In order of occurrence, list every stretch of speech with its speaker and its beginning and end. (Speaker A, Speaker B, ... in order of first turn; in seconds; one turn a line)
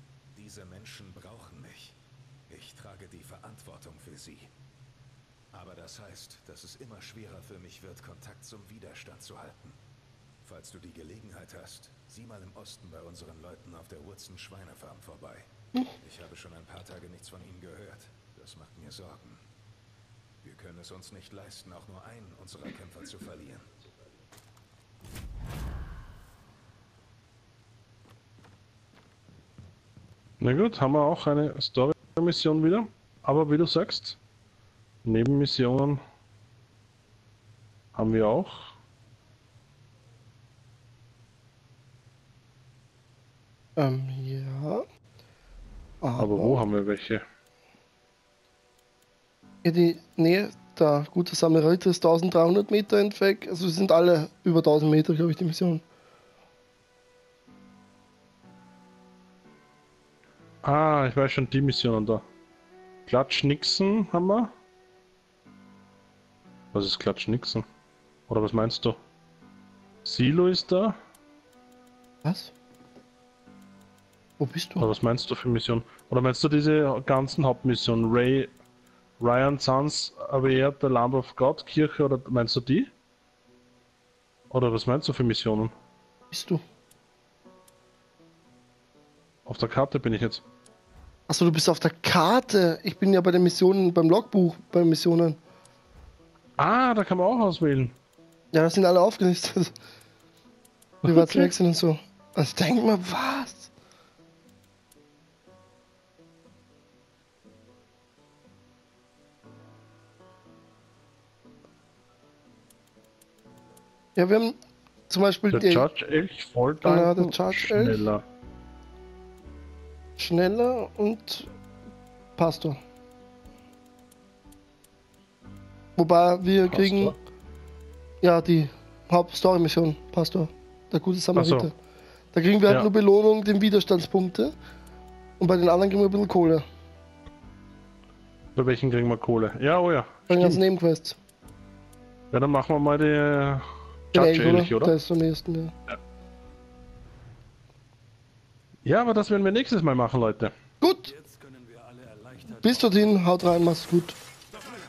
Speaker A: 0.3-2.0
Speaker A: 2.5-4.5
Speaker A: 5.5-9.8
Speaker A: 10.4-15.4
Speaker A: 16.0-19.4
Speaker A: 20.4-23.7
Speaker B: 30.4-34.2
Speaker B: 35.0-36.0
Speaker B: 37.9-38.7
Speaker C: 43.8-44.8
Speaker C: 46.0-46.6
Speaker B: 46.2-47.2
Speaker C: 49.6-55.8
Speaker B: 60.6-62.2
Speaker B: 63.1-64.5
Speaker B: 66.7-67.6
Speaker B: 68.3-69.0
Speaker B: 70.0-71.0
Speaker C: 72.2-72.5
Speaker C: 74.4-74.9
Speaker B: 74.8-78.5
Speaker B: 79.2-82.9
Speaker B: 84.5-85.7
Speaker C: 86.3-86.6
Speaker B: 89.5-90.4
Speaker C: 91.3-95.4
Speaker B: 96.6-97.9
Speaker C: 98.5-99.7
Speaker C: 101.0-103.7
Speaker C: 114.2-114.6
Speaker C: 115.1-115.8
Speaker B: 115.5-118.2
Speaker C: 116.8-118.0
Speaker C: 120.2-121.5
Speaker C: 122.4-122.8
Speaker C: 126.0-127.1
Speaker B: 126.7-127.1
Speaker C: 128.2-131.7
Speaker B: 131.3-131.7
Speaker C: 132.3-134.5
Speaker C: 135.4-136.6
Speaker B: 138.6-140.6
Speaker C: 140.3-141.2
Speaker B: 142.3-144.9
Speaker C: 144.1-145.7
Speaker B: 148.8-150.5
Speaker C: 150.8-151.1
Speaker C: 152.4-154.2